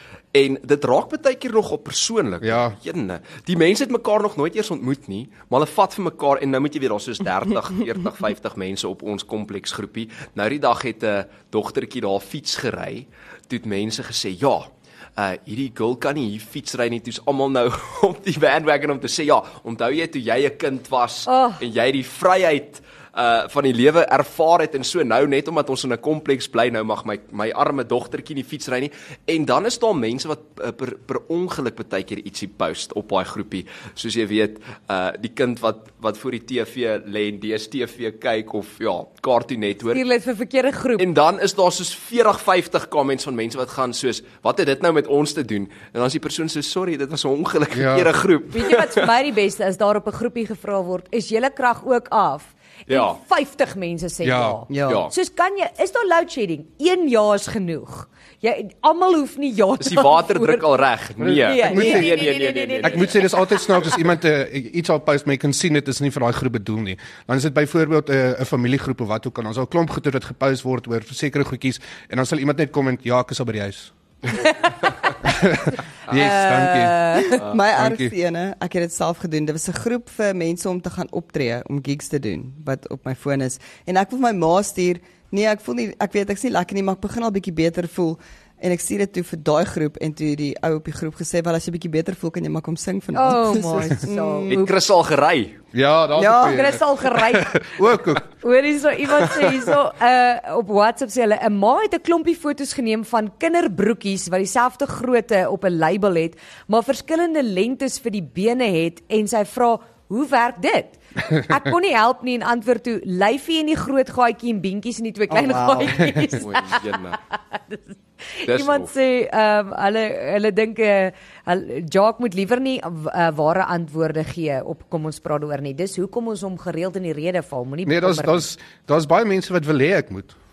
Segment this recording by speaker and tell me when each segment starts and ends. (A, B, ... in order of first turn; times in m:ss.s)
0:00.3-0:40.0 A
0:02.4-0:02.8 B
0:21.3-0:21.6 C
0:39.9-0:41.0 C
0:41.0-0:49.1 A
0:47.7-0:48.1 B
0:48.5-1:00.6 C
0:52.9-0:53.2 A
0:54.2-0:54.6 B
0:54.7-0:55.1 D
0:54.8-0:55.1 A
0:59.8-1:03.2 A
1:01.2-1:02.3 B
1:01.4-1:03.3 C
1:02.8-1:14.5 B
1:14.4-1:14.7 C
1:15.2-1:18.1 B
1:16.1-1:17.4 C
1:17.2-1:34.7 D
1:33.1-1:34.6 C
1:34.5-1:35.6 A
1:35.7-1:38.3 B
1:36.2-1:36.7 D
1:36.4-2:08.4 C
1:55.3-1:56.2 D
1:55.9-1:56.2 B
1:56.4-1:57.2 A
1:58.5-1:58.9 A
2:07.8-2:10.3 B